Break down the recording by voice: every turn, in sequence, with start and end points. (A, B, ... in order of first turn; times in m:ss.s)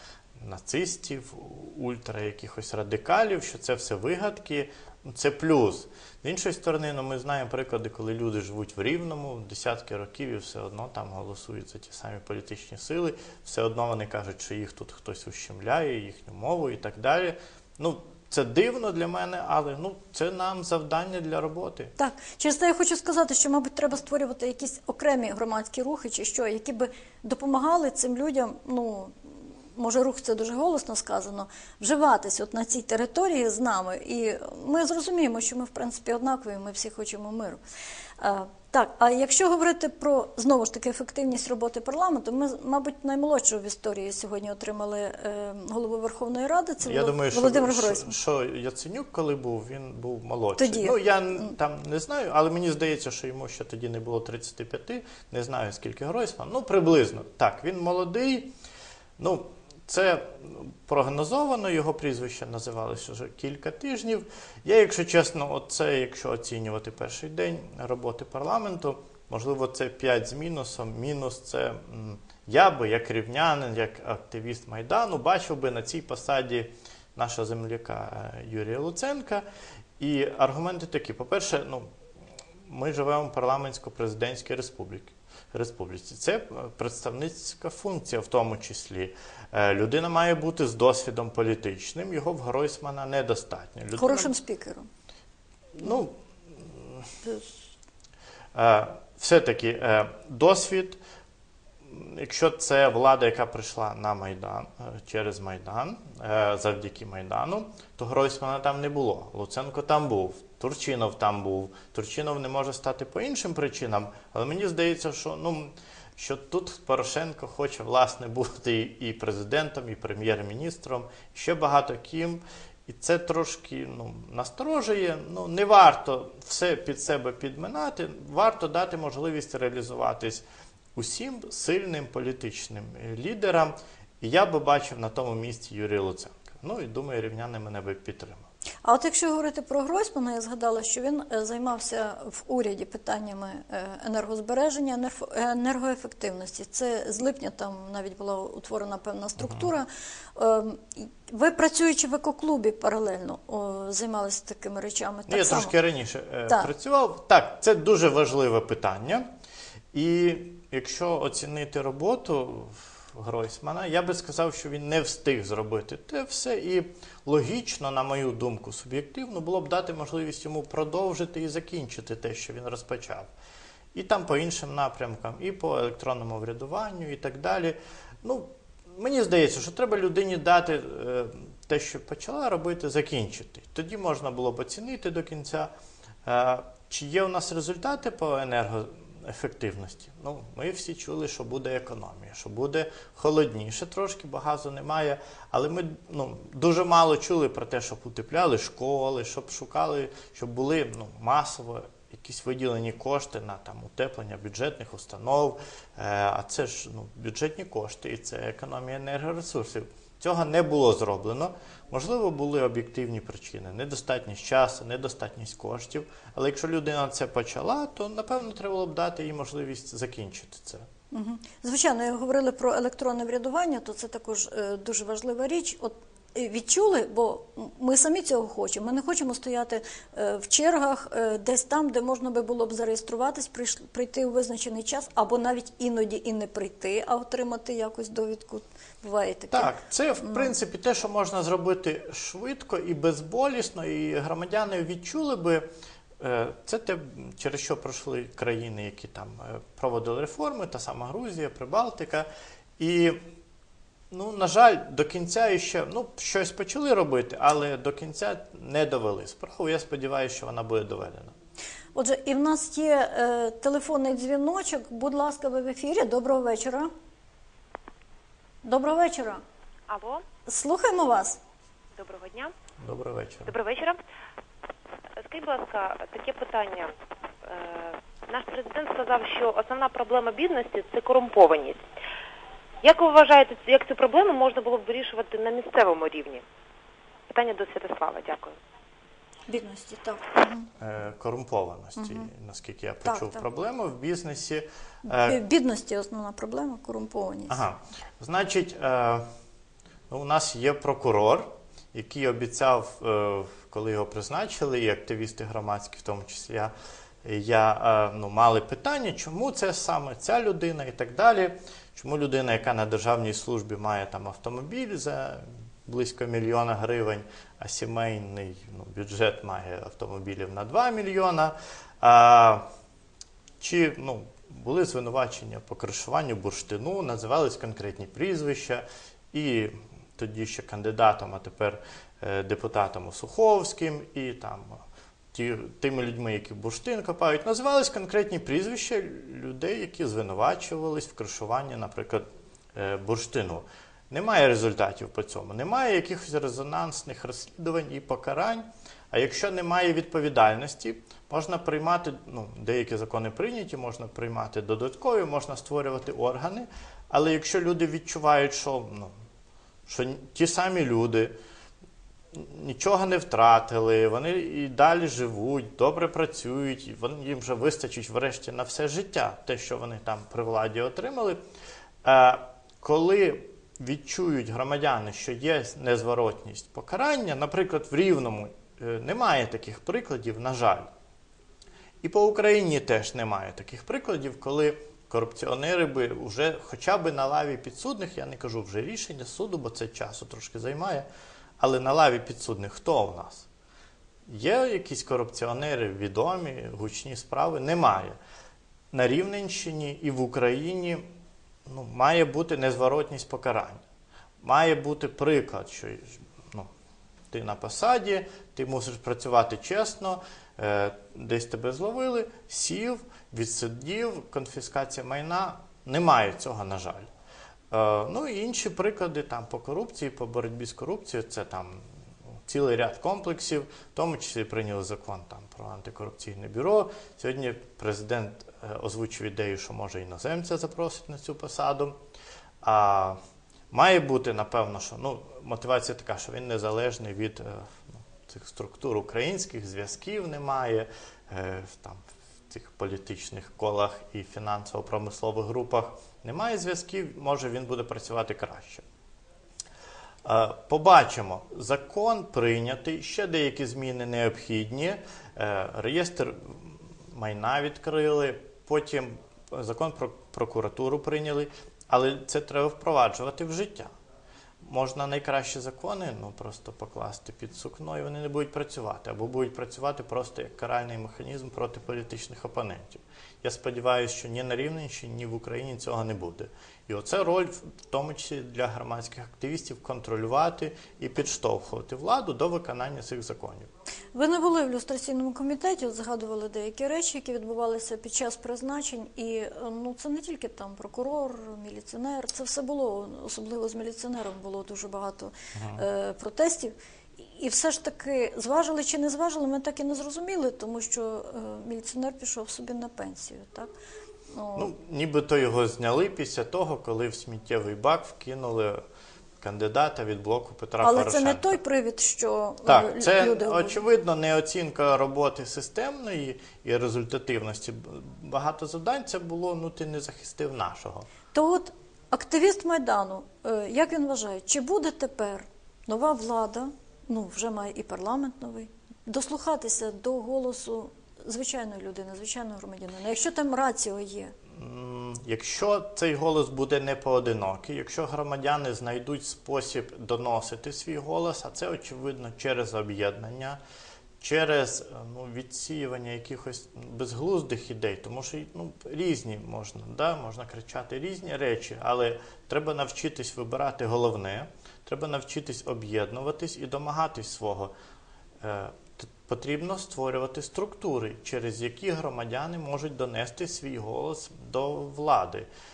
0:00.4-0:21.9 A
0:22.0-0:37.6 B
0:38.2-0:48.1 B
0:46.8-0:58.5 A
0:50.6-0:51.0 B
0:59.2-1:19.4 A
1:20.0-1:21.9 A
1:22.6-1:34.3 A
1:34.0-1:34.9 B
1:35.7-1:37.1 A
1:38.5-1:41.0 A
1:41.8-2:10.4 A
2:10.9-2:18.5 A
2:18.8-2:35.7 B
2:29.4-2:29.7 A
2:35.3-2:39.3 A
2:39.9-2:53.3 A
2:53.9-3:05.7 A
3:06.2-3:40.9 A
3:41.1-4:00.5 B
3:59.5-4:05.6 A
4:06.2-4:12.3 A
4:12.8-4:13.2 A
4:14.1-4:21.3 A
4:21.9-4:26.9 B
4:28.6-4:29.4 B
4:29.9-4:30.2 C
4:30.4-4:31.4 B
4:32.0-4:32.5 C
4:32.8-4:33.6 A
4:33.5-4:34.0 C
4:35.2-4:36.9 C
4:37.4-4:41.8 C
4:42.8-4:46.4 C
4:47.3-4:48.6 C
4:49.5-4:50.7 B
4:50.8-4:55.4 A
4:52.0-4:52.3 B
4:53.0-4:53.4 B
4:55.1-4:57.6 B
4:57.5-4:59.2 A
5:00.1-5:22.6 A
5:23.6-5:34.8 A
5:35.3-5:59.1 A
5:59.9-6:01.4 A
6:02.3-6:11.4 A
6:12.0-6:20.9 A
6:22.0-6:31.1 A
6:31.6-6:33.5 A
6:34.3-6:38.2 A
6:38.9-6:41.0 A
6:41.7-6:43.8 A
6:44.4-6:46.7 A
6:47.3-6:57.1 A
6:57.7-7:01.8 A
7:02.4-7:12.0 A
7:12.6-7:13.2 A
7:13.7-7:28.8 A
7:30.2-7:43.9 A
7:44.6-8:03.7 A
8:04.1-8:23.7 B
8:15.5-8:15.8 A
8:24.3-8:24.7 B
8:24.6-8:28.8 A
8:29.4-8:31.6 A
8:30.8-8:33.8 B
8:32.6-8:41.1 A
8:41.3-8:54.3 B
8:54.5-9:03.6 A
9:04.2-9:17.7 A
9:18.4-9:25.5 A